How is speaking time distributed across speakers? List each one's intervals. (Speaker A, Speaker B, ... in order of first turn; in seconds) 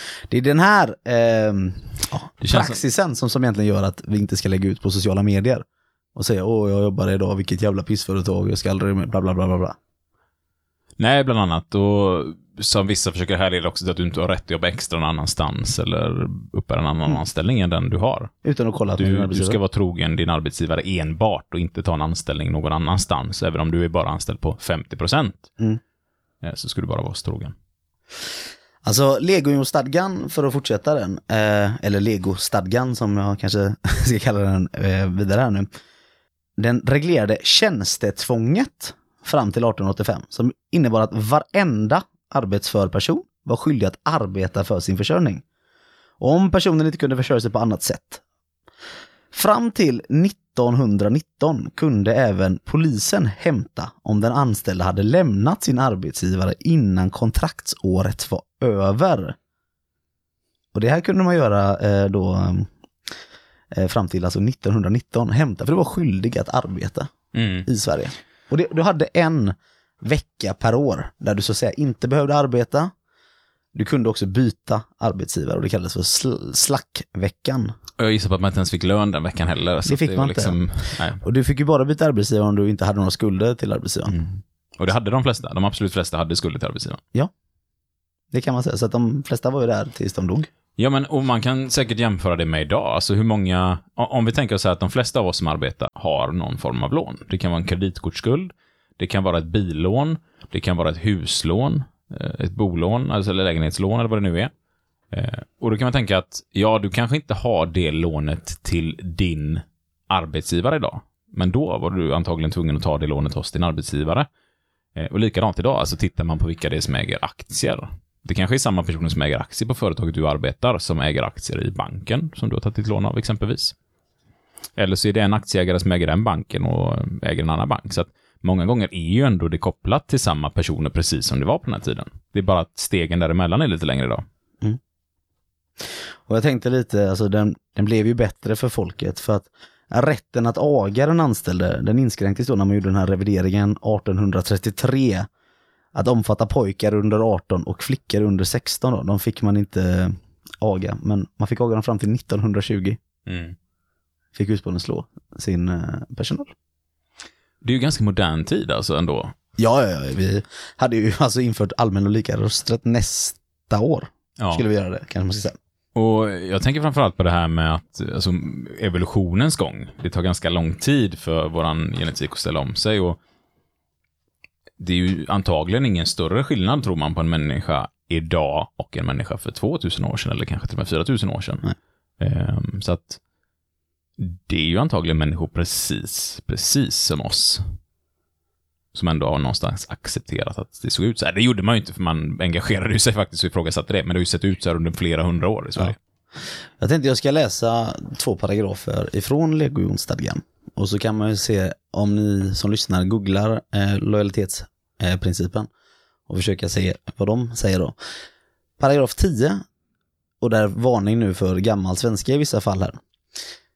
Speaker A: 0.3-9.8, 18.4-19.6, 28.8-35.7, 36.6-45.4, 46.2-48.2, 49.3-59.4, 60.7-62.7, 63.7-67.1, 67.6-72.9, 73.7-77.8, 79.9-84.2, 88.3-90.5, 136.3-145.3, 145.9-153.0, 154.3-156.5, 159.6-165.6, 196.8-205.7, 206.3-207.9, 208.8-209.6, 210.4-213.0
Speaker B: 2.4-2.8, 11.0-18.3, 19.0-25.5, 26.4-27.6, 67.3-67.7, 78.0-81.2, 84.1-87.0, 90.8-104.5, 105.1-114.3, 115.0-123.8, 124.8-134.2, 153.3-153.6, 157.6-159.3, 164.4-164.6, 165.9-173.2, 174.8-181.6, 182.2-183.2, 184.2-187.6, 188.9-196.0